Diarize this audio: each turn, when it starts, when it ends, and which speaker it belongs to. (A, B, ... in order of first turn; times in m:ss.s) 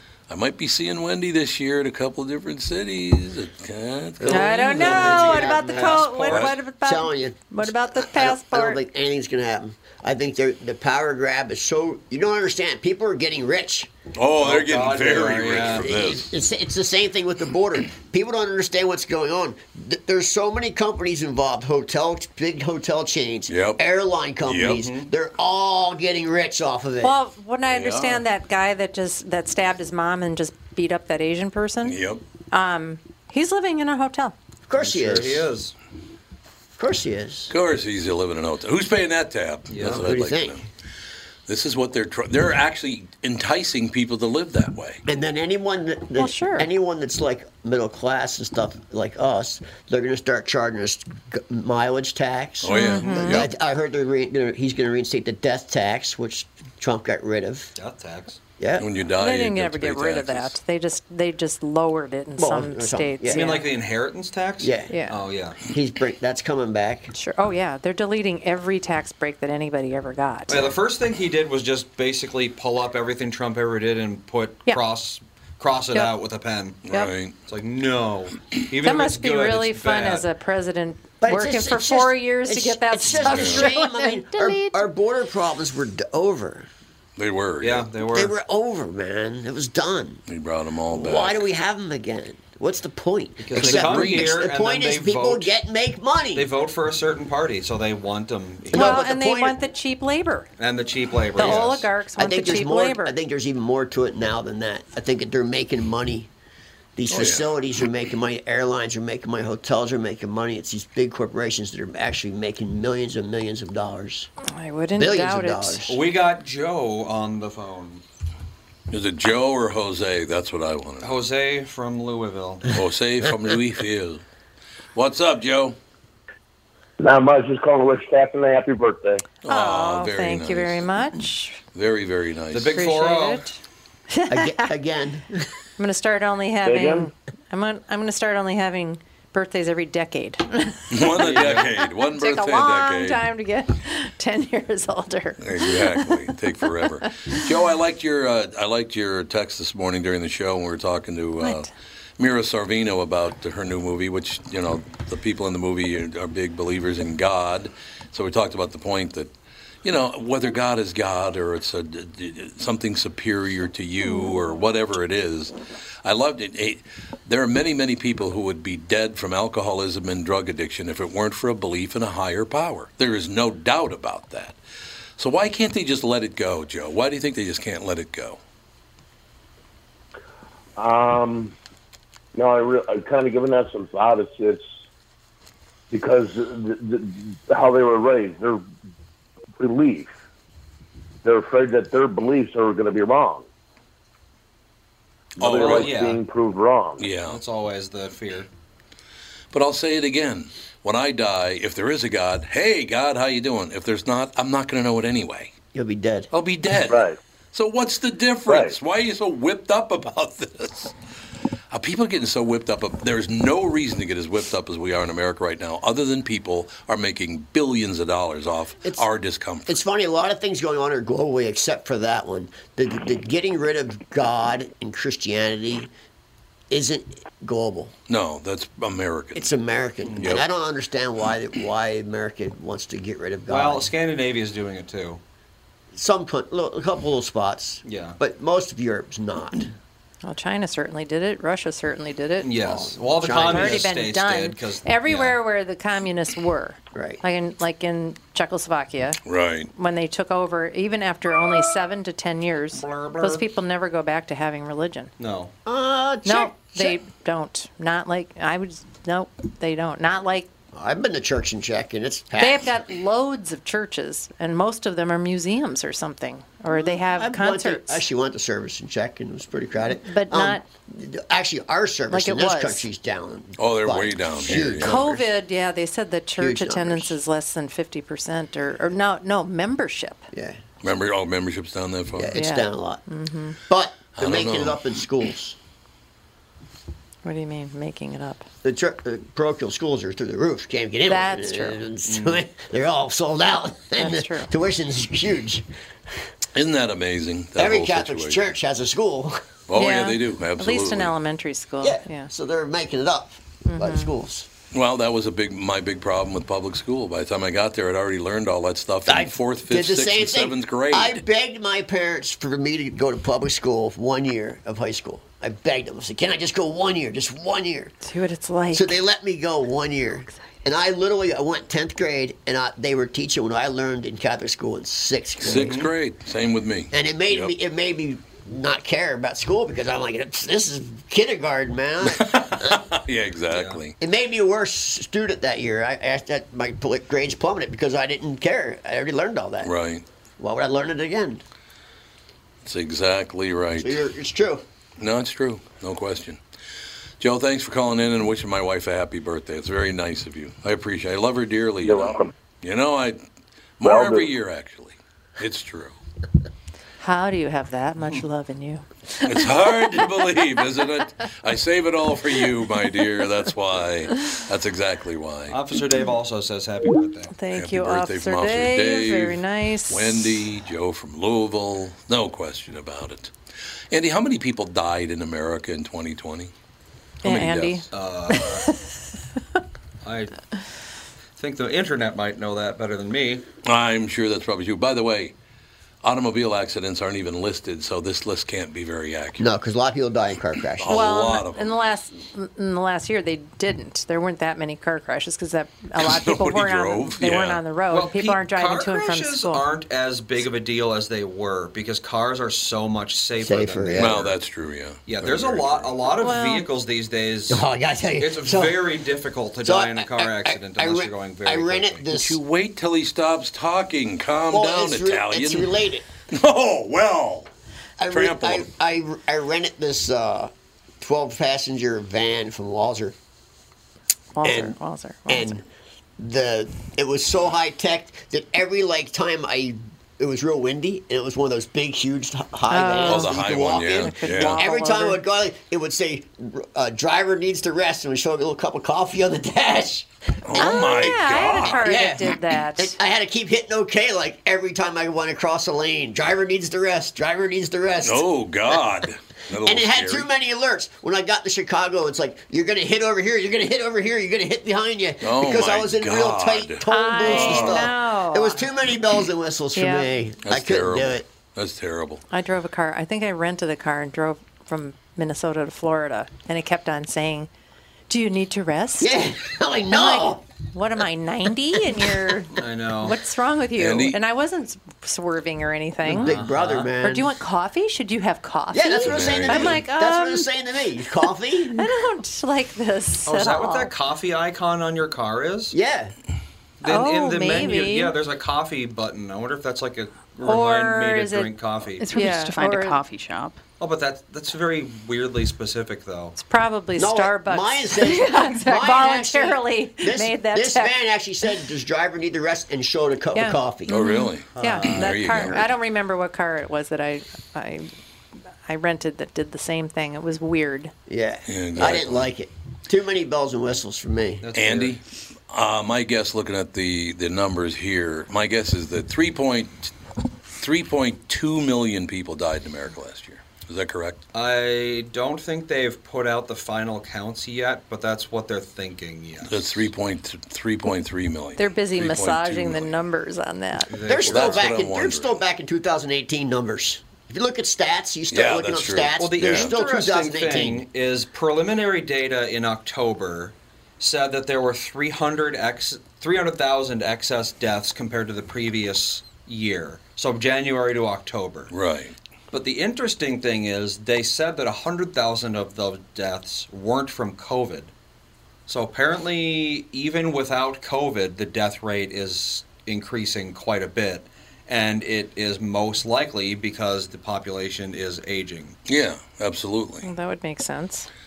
0:00.3-0:05.1 A
0:04.2-0:13.9 B
0:04.3-0:08.8 C
0:04.6-0:06.4 D
0:06.2-0:06.6 A
0:14.2-0:16.3 A
0:14.4-0:15.9 D
0:15.7-0:27.1 B
0:23.5-0:23.8 A
0:24.4-0:24.8 A
0:24.7-0:25.1 D
0:27.0-0:32.0 C
0:27.7-0:28.2 A
0:31.8-0:32.2 A
0:32.5-0:34.3 C
0:34.7-0:35.5 B
0:34.8-0:35.7 D
0:36.8-0:37.6 B
0:37.5-0:40.6 A
0:39.7-0:40.0 D
0:39.9-0:40.6 B
0:41.5-0:45.0 A
0:45.1-0:57.7 B
0:46.2-0:46.7 C
0:52.6-0:53.5 A
0:52.7-0:53.4 C
0:53.0-0:53.3 D
0:57.8-0:58.4 D
0:58.6-0:58.9 B
0:58.8-1:00.6 A
0:59.2-1:03.7 C
1:02.4-1:03.4 B
1:03.3-1:05.6 D
1:04.6-1:05.0 B
1:04.9-1:05.2 C
1:05.7-1:07.1 B
1:07.1-1:10.7 C
1:10.5-1:16.8 D
1:16.9-1:17.4 A
1:17.5-1:20.3 D
1:18.8-1:24.8 C
1:21.2-1:26.7 B
1:23.2-1:23.7 A
1:27.2-1:27.9 A
1:27.6-1:28.4 D
1:28.1-1:30.2 B
1:30.3-1:31.4 A
1:30.9-1:36.5 B
1:33.4-1:35.5 D
1:33.5-1:34.5 A
1:36.3-1:39.0 D
1:38.7-1:39.6 B
1:38.7-1:40.5 C
1:40.6-1:41.9 D
1:41.4-1:43.2 C
1:41.4-1:41.6 B
1:42.2-1:46.3 B
1:47.0-1:54.3 B
1:47.1-1:47.5 A
1:54.5-1:55.9 C
1:55.0-1:56.0 B
1:55.9-1:58.0 D
1:58.9-2:01.2 A
2:01.0-2:02.8 D
2:02.7-2:04.2 A
2:05.0-2:05.8 A
2:07.0-2:09.2 E
2:09.4-2:10.9 A
2:09.5-2:11.6 C
2:11.7-2:12.8 A
2:12.5-2:13.5 D
2:12.7-2:13.6 C
2:14.1-2:14.7 C
2:14.3-2:15.5 B
2:15.8-2:27.5 C
2:16.6-2:17.1 E
2:20.9-2:23.2 A
2:21.2-2:21.7 D
2:25.4-2:39.3 A
2:31.4-2:31.7 C
2:39.8-2:54.6 A
2:55.2-2:58.4 A
3:00.8-3:01.5 E
3:02.4-3:04.7 E
3:05.9-3:08.7 E
3:09.6-3:10.1 E
3:11.2-3:13.5 E
3:15.4-3:16.1 A
3:15.4-3:17.1 E
3:15.4-3:16.2 D
3:17.0-3:17.4 A
3:17.2-3:18.5 D
3:19.5-3:25.5 A
3:25.7-3:26.3 B
3:26.3-3:30.9 A
3:26.8-3:27.2 E
3:28.5-3:28.8 E
3:31.7-3:39.8 A
3:39.7-3:45.9 B
3:46.7-3:47.9 B
3:48.1-3:49.5 A
3:49.4-3:53.9 B
3:50.0-3:50.4 D
3:50.2-3:50.4 A
3:53.5-3:55.2 D
3:55.9-3:59.8 B
3:57.8-3:58.2 D
4:00.2-4:02.5 C
4:02.4-4:05.4 D
4:02.6-4:03.8 B
4:03.3-4:09.2 C
4:06.9-4:07.2 B
4:09.2-4:09.7 A
4:09.7-4:15.1 C
4:12.7-4:13.4 D
4:15.2-4:15.5 D
4:15.6-4:17.0 B
4:16.2-4:20.5 C
4:20.7-4:22.8 B
4:22.4-4:28.0 C
4:26.7-4:35.3 B
4:30.0-4:30.6 C
4:32.1-4:32.9 C
4:33.6-4:35.0 A
4:34.5-4:40.2 C
4:36.4-4:37.2 B
4:40.3-4:40.6 B
4:40.8-4:42.3 A
4:42.1-4:43.0 B
4:42.4-4:43.6 C
4:43.6-4:45.6 B
4:44.2-4:44.9 A
4:47.2-4:48.4 C
4:48.6-4:55.7 B
4:51.1-4:51.9 C
4:52.0-4:52.4 D
4:54.0-4:54.5 C
4:56.5-4:58.5 A
4:57.6-4:59.4 B
4:59.7-5:01.1 A
4:59.8-5:02.3 C
5:01.8-5:04.5 B
5:03.6-5:04.1 C
5:04.7-5:11.2 A
5:09.1-5:17.9 B
5:18.0-5:19.0 C
5:18.7-5:25.8 B
5:25.4-5:27.5 A
5:25.5-5:25.9 D
5:26.9-5:32.8 B
5:32.0-5:33.9 A
5:33.5-5:33.8 D
5:34.0-5:39.7 B
5:39.6-5:40.0 A
5:40.4-5:41.4 B
5:42.6-5:44.0 A
5:43.8-5:44.6 B
5:45.0-5:46.4 A
5:47.2-5:53.2 A
5:51.8-5:52.3 E
5:53.8-5:56.0 A
5:53.8-5:54.3 E
5:57.0-5:59.2 C
5:58.0-5:58.2 D
5:59.2-6:05.6 A
6:05.5-6:07.3 D
6:07.3-6:10.4 C
6:07.5-6:13.3 A
6:13.9-6:16.5 A
6:17.2-6:17.9 A
6:17.2-6:18.7 C
6:17.9-6:18.7 D
6:20.0-6:20.4 D
6:21.4-6:23.4 D
6:23.6-6:25.3 A
6:26.0-6:29.5 A
6:29.4-6:31.0 B
6:30.8-6:31.7 A
6:30.9-6:39.6 C
6:36.0-6:37.6 A
6:37.9-6:44.4 D
6:43.4-6:44.2 B
6:44.0-6:46.0 A
6:45.1-6:47.6 D
6:46.2-6:46.7 C
6:47.5-6:48.8 B
6:48.2-6:52.0 D
6:49.6-6:52.4 B
6:52.1-6:55.8 A
6:54.5-6:56.1 B
6:56.3-6:57.5 A
6:58.0-7:03.2 B
6:58.1-6:58.7 A
7:04.3-7:05.6 C
7:04.4-7:04.8 B
7:05.3-7:05.6 B
7:06.2-7:28.8 B
7:12.7-7:15.2 C
7:13.1-7:14.6 A
7:20.4-7:22.0 A
7:20.6-7:23.0 C
7:28.0-7:30.3 A
7:29.6-7:41.2 B
7:35.2-7:37.9 A
7:36.9-7:38.7 C
7:39.8-7:40.1 C
7:40.4-7:42.2 A
7:42.3-7:47.5 C
7:48.1-7:49.2 C
7:49.0-7:50.4 B
7:49.9-7:56.4 C
7:52.6-7:53.2 D
7:53.8-7:54.2 A
7:56.1-7:57.3 B
7:56.2-7:56.9 D
7:57.0-8:00.5 C
7:58.7-8:01.9 B
7:59.0-7:59.8 A
8:01.7-8:03.9 C
8:03.3-8:05.8 D
8:05.7-8:06.2 B
8:06.8-8:12.1 D
8:06.8-8:08.2 C
8:10.4-8:13.0 C
8:12.0-8:13.6 F
8:13.8-8:16.4 D
8:16.4-8:21.0 C
8:17.0-8:24.0 B
8:23.4-8:27.9 C
8:23.9-8:25.7 A
8:23.9-8:24.3 F
8:24.5-8:25.7 D
8:28.6-8:30.9 C
8:31.1-8:34.5 B
8:31.5-8:32.3 A
8:34.4-8:35.0 D
8:34.5-8:39.9 A
8:40.6-8:44.2 A
8:44.3-8:49.6 D
8:49.4-8:53.0 A
8:51.6-8:53.9 C
8:53.9-8:54.8 D
8:54.1-9:00.8 B
8:54.2-8:55.3 A
8:58.3-8:59.8 A
8:59.2-9:11.7 D
9:11.7-9:12.2 A
9:12.5-9:17.9 D
9:18.7-9:28.8 D
9:28.9-9:30.1 A
9:30.0-9:31.1 C